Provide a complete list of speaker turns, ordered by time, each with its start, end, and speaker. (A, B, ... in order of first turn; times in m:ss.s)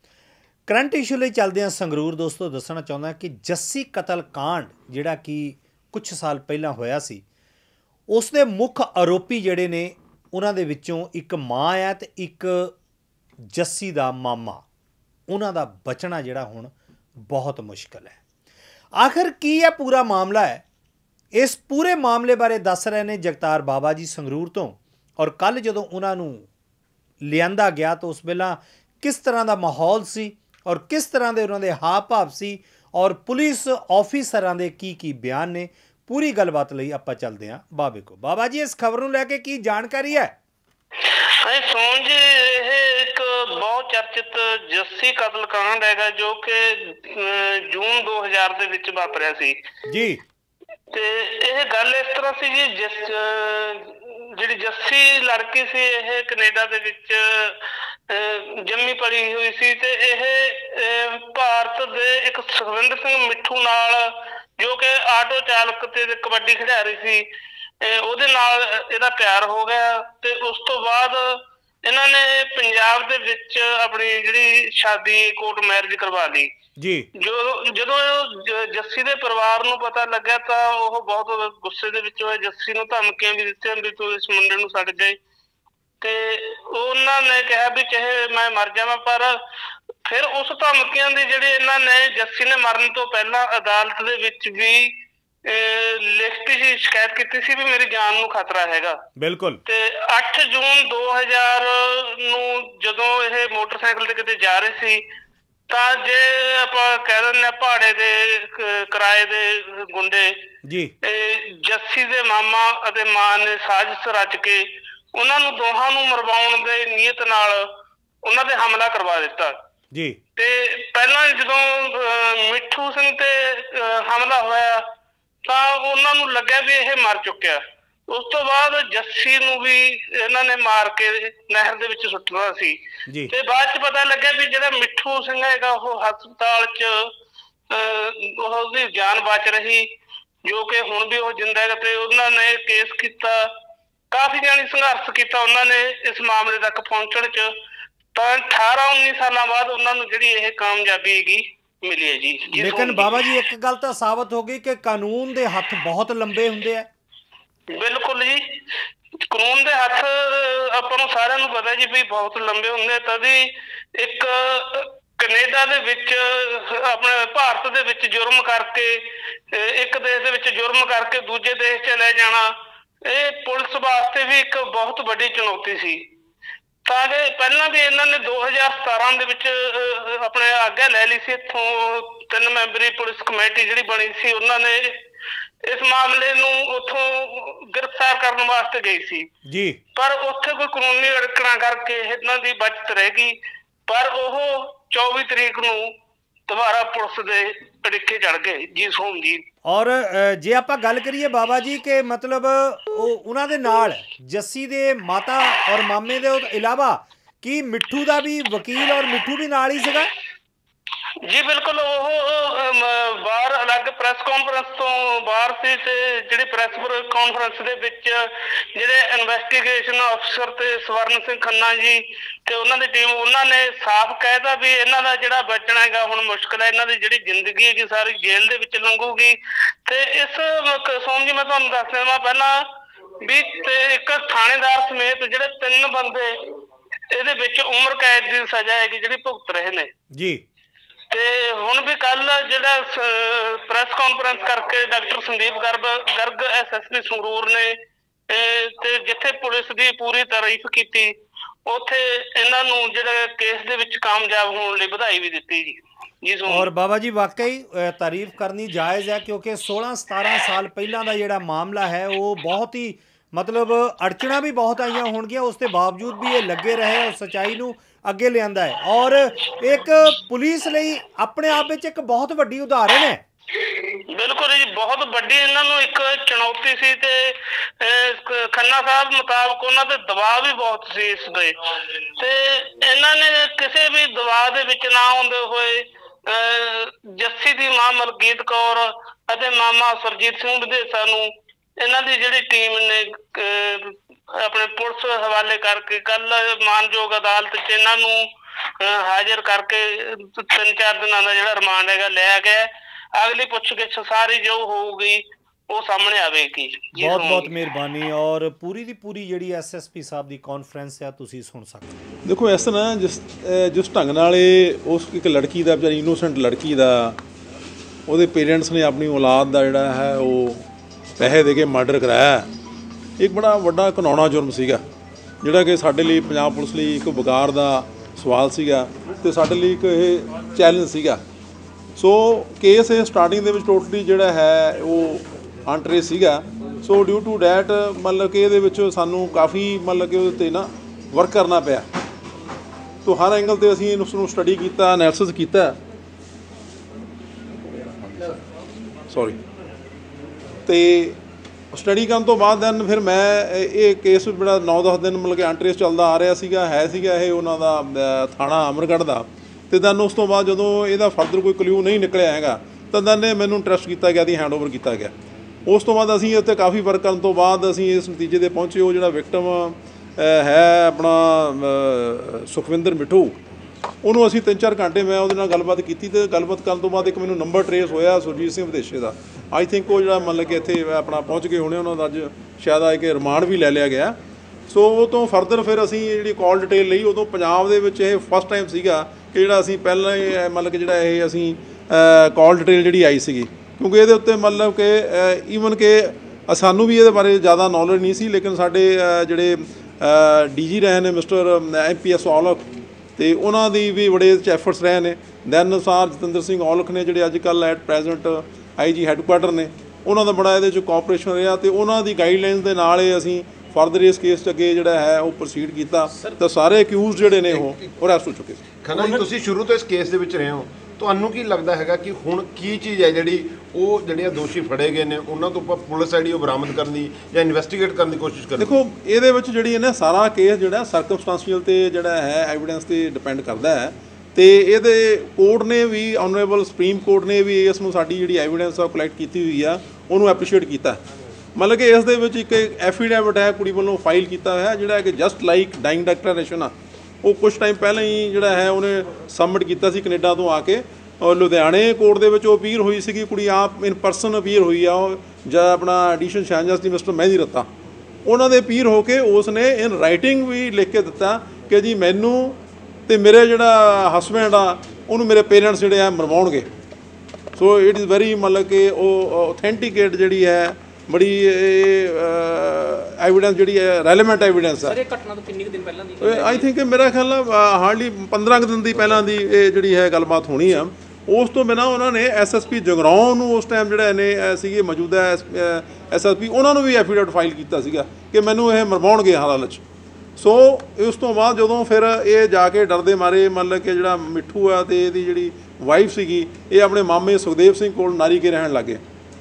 0:00.7-0:07.2 A
0:08.1-0:12.7 A
0:13.5-0:14.6 A
0:15.3-0:16.7 A
0:17.3-0:18.2 A
0:19.0-0:20.6 A
0:21.3-0:26.5 A
0:27.2-0:40.3 A
0:41.0-0:49.6 B
0:49.9-0:50.2 A
0:50.9-1:07.2 B
1:07.8-1:16.5 B
1:16.8-1:17.1 A
1:17.1-1:25.2 B
1:26.0-1:29.4 B
1:30.0-1:39.0 B
1:39.2-1:39.6 A
1:39.6-1:45.0 B
1:45.7-1:50.4 B
1:50.6-1:50.9 A
1:51.0-1:57.7 B
1:58.2-1:59.6 B
1:59.9-2:00.2 A
2:00.4-2:04.8 B
2:05.4-2:12.8 B
2:13.3-2:17.1 B
2:17.7-2:19.9 B
2:20.4-2:23.5 B
2:24.1-2:27.5 B
2:28.1-2:33.2 B
2:32.5-2:36.9 A
2:37.7-2:38.6 B
2:39.2-2:56.1 B
2:56.8-3:05.0 B
3:05.6-3:09.3 B
3:09.4-3:09.8 A
3:09.9-3:13.4 B
3:13.9-3:15.9 B
3:16.5-3:19.4 B
3:19.6-3:30.1 A
3:31.2-3:52.7 B
3:53.2-3:56.5 B
3:57.1-3:59.9 B
4:00.1-4:00.4 A
4:01.1-4:07.8 B
4:08.3-4:11.1 B
4:11.6-4:16.7 B
4:16.5-4:33.2 A
4:33.6-5:07.5 B
5:06.9-5:11.8 A
5:12.2-5:17.2 C
5:18.1-5:20.6 C
5:21.2-5:22.5 C
5:23.2-5:24.8 C
5:25.4-5:31.2 C
5:32.0-5:41.8 C
5:43.0-5:45.8 C
5:48.0-5:48.4 C
5:49.1-5:49.4 C
5:50.6-5:51.2 C
5:51.7-6:05.1 C
6:05.6-6:13.4 C
6:14.0-6:24.2 C
6:24.7-6:59.2 C
6:57.4-6:57.8 D
6:58.8-7:08.8 D
7:08.6-7:21.0 C
7:21.6-7:37.7 C
7:38.2-7:46.7 C
7:47.6-7:55.0 C
7:54.8-7:56.7 E
7:56.2-8:09.8 C
8:10.4-8:19.0 C